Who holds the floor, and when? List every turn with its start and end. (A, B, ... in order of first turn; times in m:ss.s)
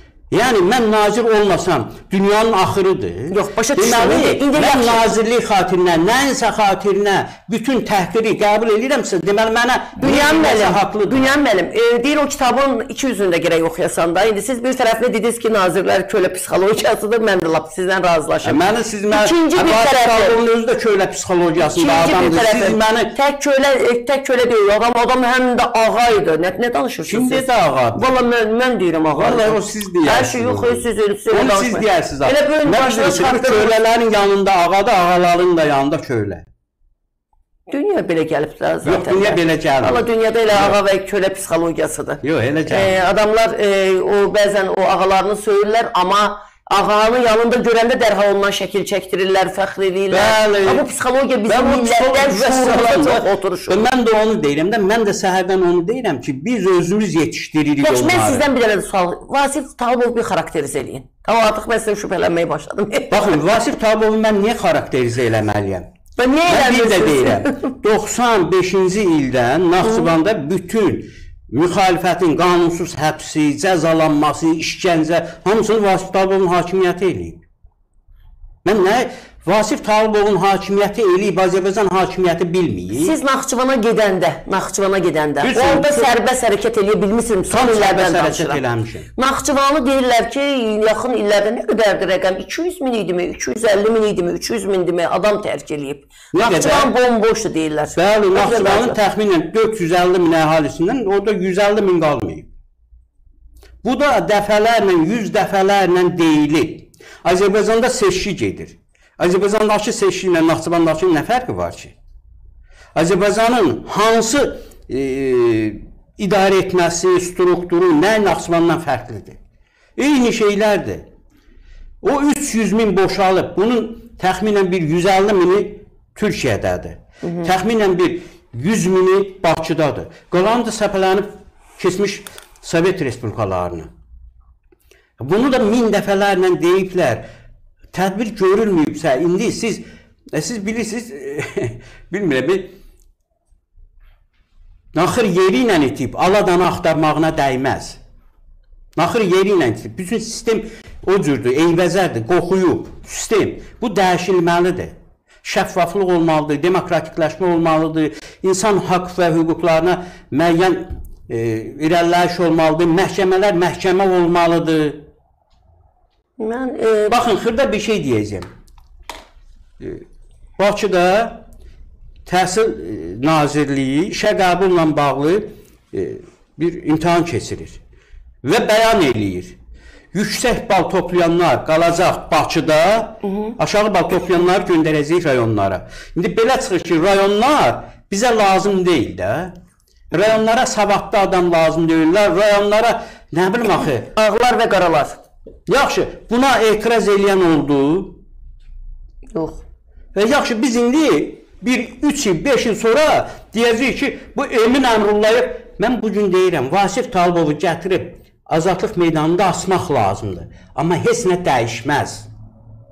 0:00.3-0:11.3 A
0:03.3-0:05.2 B
0:10.0-0:20.4 B
0:18.4-0:23.1 A
0:21.6-0:33.8 B
0:27.1-0:28.0 A
0:29.2-0:36.4 A
0:37.7-0:53.8 B
0:38.8-0:40.8 A
0:42.2-0:43.0 A
0:50.1-0:50.8 A
0:51.5-0:58.4 A
0:57.8-1:03.4 B
1:03.1-1:05.9 A
1:06.2-1:07.7 B
1:06.5-1:17.4 A
1:09.8-1:10.1 B
1:18.6-1:23.2 A
1:22.9-1:28.6 B
1:25.4-1:26.1 A
1:27.5-1:29.1 A
1:29.2-1:39.0 B
1:36.3-1:36.9 A
1:38.0-1:42.5 A
1:43.8-1:51.9 A
1:52.9-1:59.4 A
2:00.0-2:01.1 A
2:02.0-2:13.9 A
2:07.2-2:07.5 B
2:15.2-2:17.2 A
2:17.9-2:19.8 A
2:20.3-2:22.7 A
2:24.9-2:28.0 A
2:29.0-2:45.0 A
2:46.4-2:47.2 B
2:47.1-2:48.5 A
2:50.6-2:51.4 A
2:52.2-2:57.8 A
2:58.4-2:59.6 A
3:00.1-3:09.5 A
3:03.3-3:03.5 B
3:10.1-3:14.1 A
3:14.1-3:15.2 B
3:15.7-3:18.2 A
3:19.3-3:19.6 B
3:20.1-3:32.3 A